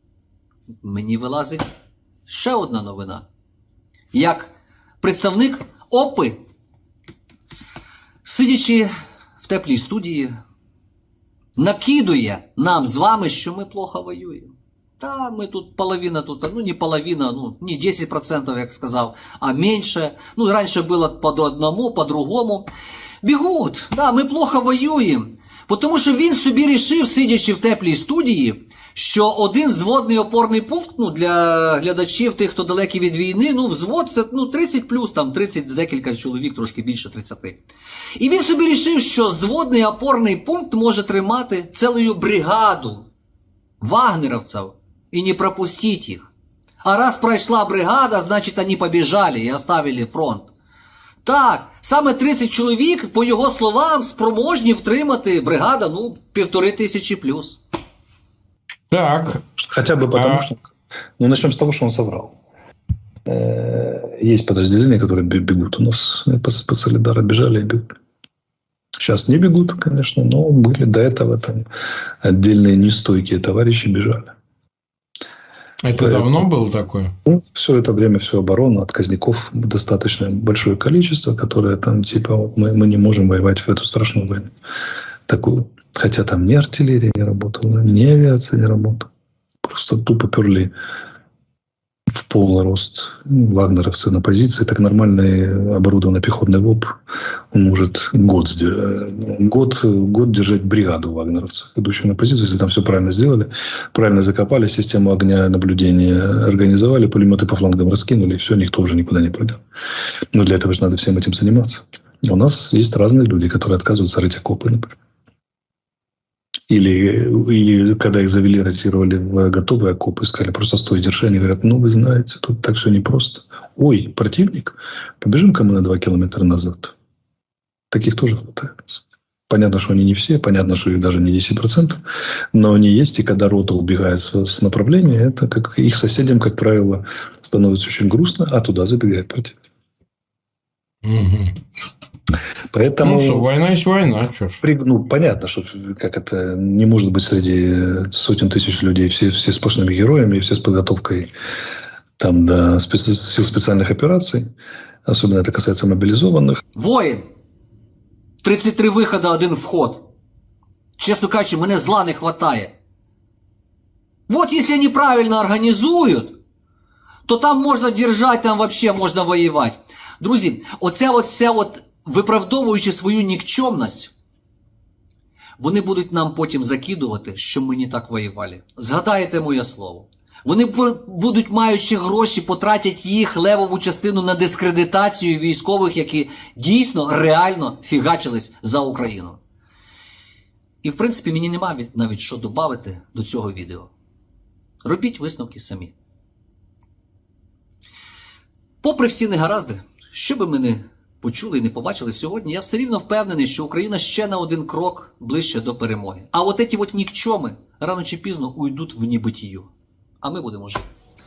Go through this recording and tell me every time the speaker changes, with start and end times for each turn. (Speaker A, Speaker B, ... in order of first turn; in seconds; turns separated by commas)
Speaker A: 0.8-1.7, Speaker A: 2.2-3.2, Speaker A: 4.1-6.4, Speaker A: 8.2-8.9, Speaker A: 9.4-10.3, Speaker A: 11.6-22.7, Speaker A: 23.2-37.6, Speaker A: 38.2-43.1, Speaker A: 43.8-46.3, Speaker A: 46.8-50.5, Speaker A: 51.2-57.6, Speaker B: 58.9-59.4, Speaker C: 59.6-60.6, Speaker B: 60.1-60.5, Speaker C: 61.2-62.4, Speaker C: 63.3-67.8, Speaker C: 69.0-71.7, Speaker C: 72.2-74.3, Speaker B: 75.8-77.1, Speaker C: 76.0-76.3, Speaker C: 77.2-84.5, Speaker C: 85.3-89.1, Speaker C: 89.6-90.7, Speaker C: 92.1-96.9, Speaker C: 97.5-109.6, Speaker C: 110.3-114.9, Speaker C: 116.7-126.9, Speaker C: 127.9-132.0, Speaker C: 132.5-139.6, Speaker B: 141.0-141.5, Speaker C: 142.7-143.5, Speaker B: 143.0-144.6, Speaker C: 144.6-151.3, Speaker C: 152.2-154.5, Speaker C: 155.1-156.6, Speaker A: 156.7-157.3, Speaker A: 158.4-160.1, Speaker A: 161.0-162.7, Speaker A: 164.3-166.4, Speaker A: 167.2-174.1, Speaker A: 175.6-189.4, Speaker A: 190.8-193.9, Speaker A: 194.8-195.9, Speaker A: 198.8-209.7, Speaker A: 210.2-210.9